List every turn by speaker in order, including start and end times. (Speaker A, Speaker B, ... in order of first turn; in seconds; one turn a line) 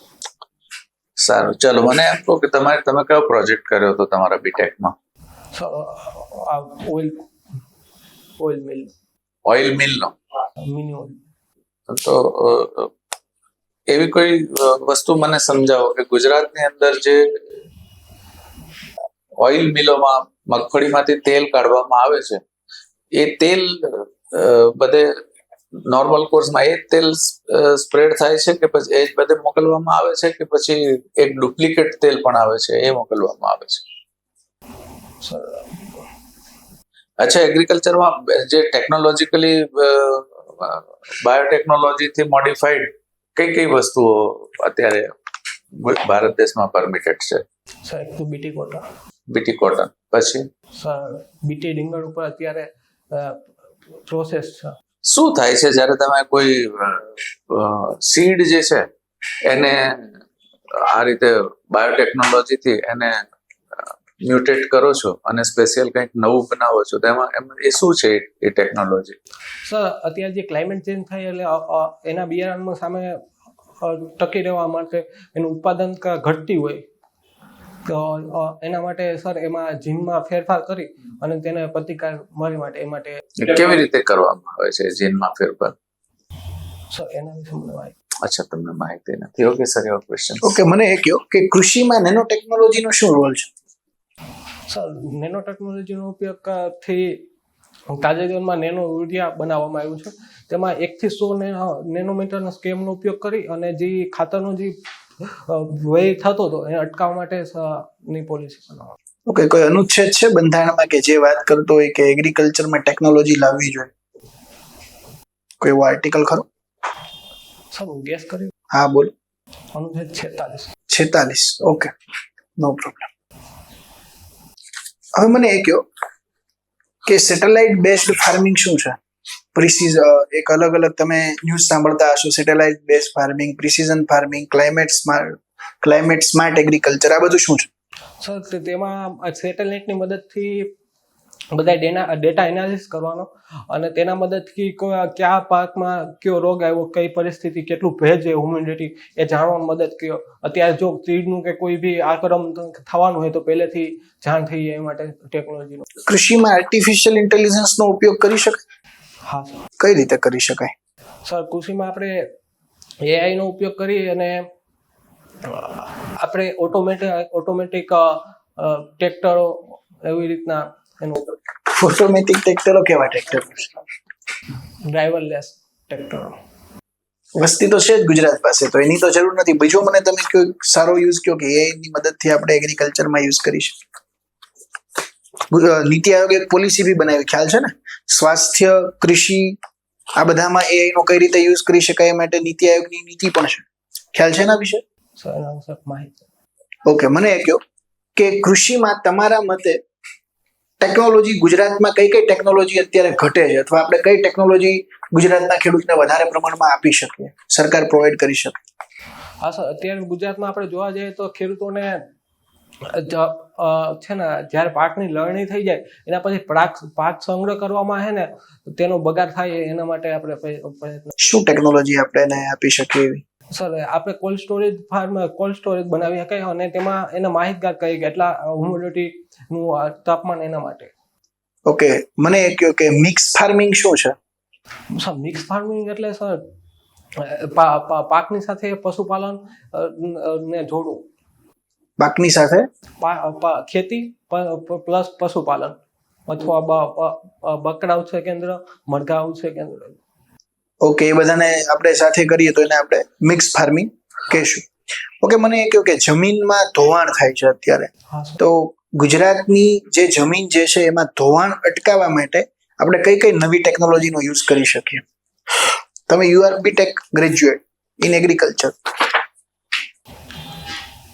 Speaker A: 1.2-4.9
Speaker B: 5.5-7.2
Speaker B: 8.4-8.9
Speaker A: 9.4-10.1
Speaker B: 10.6-11.2
Speaker A: 11.9-12.9
Speaker A: 13.9-17.2
Speaker A: 19.4-22.4
Speaker A: 23.1-25.1
Speaker A: 25.9-33.8
Speaker B: 35.2-36.0
Speaker A: 37.2-45.1
Speaker A: 45.8-47.4
Speaker B: 47.8-48.9
Speaker A: 49.3-50.5
Speaker B: 50.8-53.5
Speaker B: 54.0-54.7
Speaker A: 55.0-58.9
Speaker A: 59.5-60.1
Speaker A: 60.7-63.1
Speaker A: 63.8-69.2
Speaker B: 69.6-73.2
Speaker B: 73.8-76.8
Speaker B: 77.8-83.2
Speaker A: 83.4-85.7
Speaker B: 86.9-87.9
Speaker A: 88.2-90.6
Speaker C: 90.4-93.5
Speaker B: 94.7-97.2
Speaker B: 97.9-108.9
Speaker C: 109.3-113.9
Speaker C: 115.6-116.5
Speaker B: 117.7-118.5
Speaker C: 118.7-119.1
Speaker B: 119.7-120.7
Speaker C: 120.9-121.9
Speaker C: 122.6-123.1
Speaker C: 125.1-125.9
Speaker C: 127.1-129.0
Speaker C: 129.5-137.7
Speaker B: 138.2-140.7
Speaker B: 141.5-155.8
Speaker C: 156.1-158.6
Speaker B: 159.2-159.6
Speaker C: 159.8-160.7
Speaker B: 161.2-162.3
Speaker B: 163.0-164.4
Speaker B: 165.4-171.3
Speaker C: 171.7-173.8
Speaker B: 174.9-176.4
Speaker C: 177.4-183.8
Speaker C: 185.5-189.6
Speaker C: 190.2-193.6
Speaker C: 194.1-194.8
Speaker B: 195.2-196.2
Speaker C: 196.9-197.6
Speaker C: 198.2-199.8
Speaker C: 200.8-208.6
Speaker B: 209.4-212.0
Speaker B: 212.8-221.1
Speaker C: 221.2-223.2
Speaker B: 223.5-230.9
Speaker C: 231.7-234.1
Speaker B: 234.9-236.4
Speaker B: 237.1-241.1
Speaker C: 242.0-242.7
Speaker B: 243.0-250.0
Speaker C: 250.8-254.7
Speaker C: 255.2-265.0
Speaker B: 258.1-258.4
Speaker C: 266.1-269.1